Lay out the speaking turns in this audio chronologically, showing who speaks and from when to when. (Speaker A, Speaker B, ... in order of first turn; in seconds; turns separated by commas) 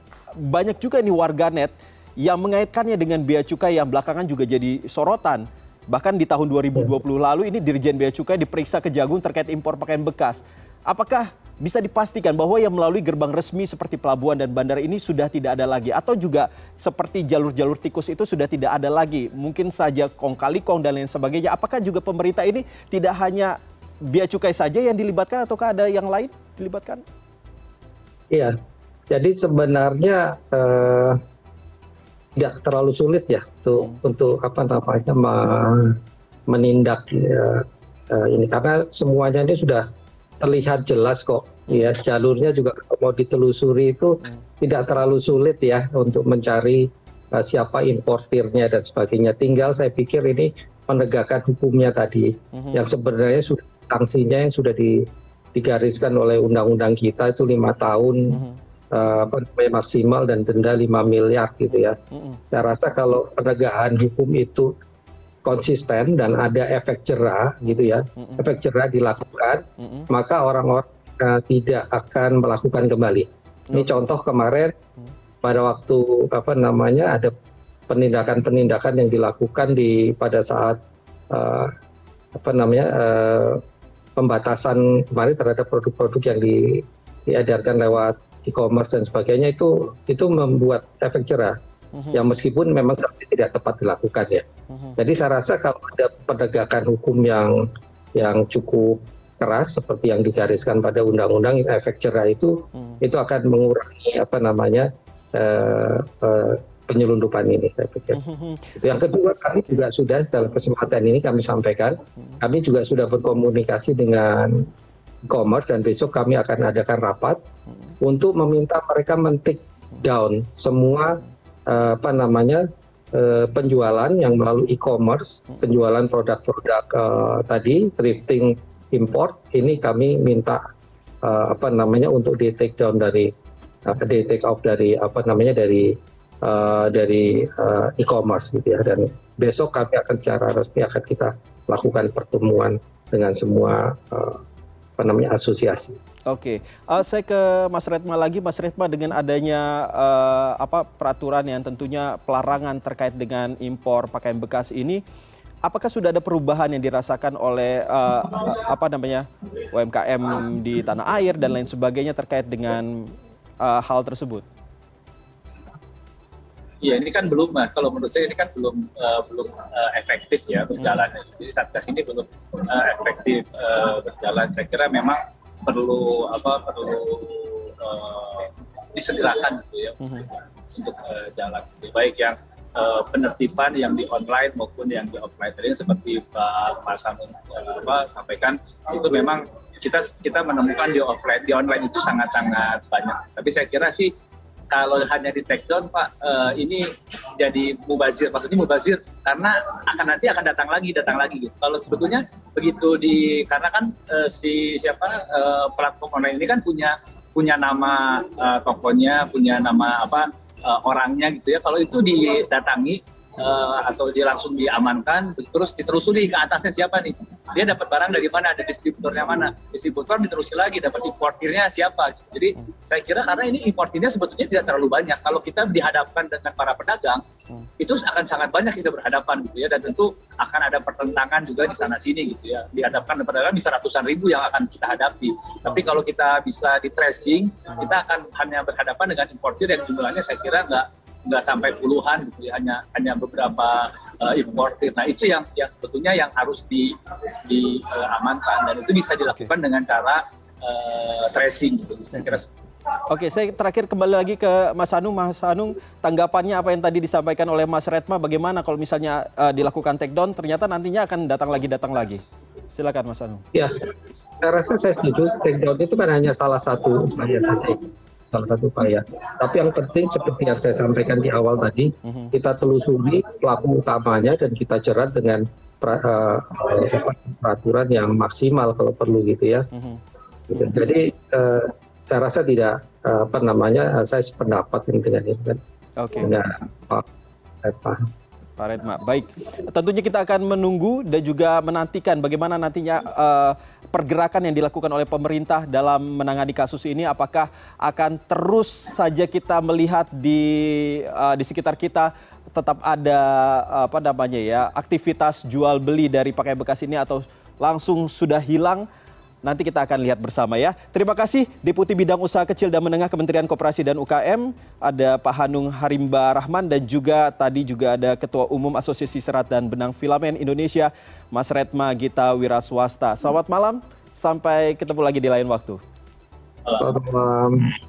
Speaker A: 0.4-23.6, Speaker A: 24.1-27.0, Speaker B: 29.1-31.2, Speaker B: 32.4-36.0, Speaker B: 36.5-39.8, Speaker B: 40.4-58.4, Speaker A: 52.5-52.9, Speaker A: 58.3-58.6, Speaker B: 58.9-62.0, Speaker A: 61.7-62.4, Speaker B: 62.5-64.7, Speaker B: 65.4-74.7, Speaker A: 67.6-68.4, Speaker A: 69.8-70.1, Speaker A: 73.7-74.0, Speaker B: 75.4-77.3, Speaker B: 77.9-80.8, Speaker B: 81.3-81.7, Speaker B: 82.3-83.6, Speaker B: 84.2-91.5, Speaker A: 91.9-92.2, Speaker B: 92.1-94.4, Speaker A: 94.7-95.0, Speaker B: 95.0-97.6, Speaker B: 98.1-108.2, Speaker A: 102.7-103.0, Speaker A: 108.1-108.8, Speaker B: 108.8-114.7, Speaker B: 115.3-117.4, Speaker A: 117.7-117.9, Speaker B: 118.0-130.6, Speaker B: 131.2-133.3, Speaker B: 133.8-144.4, Speaker B: 145.0-145.9, Speaker A: 146.3-155.0, Speaker A: 155.6-164.4, Speaker C: 166.8-194.1, Speaker A: 170.8-171.0, Speaker A: 180.0-180.2, Speaker C: 194.7-196.8, Speaker C: 197.4-227.2, Speaker C: 227.8-246.9, Speaker C: 247.5-252.5, Speaker A: 253.1-263.4, Speaker B: 263.5-263.8, Speaker B: 264.4-279.6, Speaker A: 272.0-272.3, Speaker A: 279.7-280.0, Speaker B: 280.5-285.6, Speaker A: 286.0-286.3, Speaker B: 286.2-287.0, Speaker B: 287.6-288.0, Speaker A: 288.6-308.9, Speaker A: 309.4-325.8, Speaker C: 326.6-326.9, Speaker B: 326.8-327.7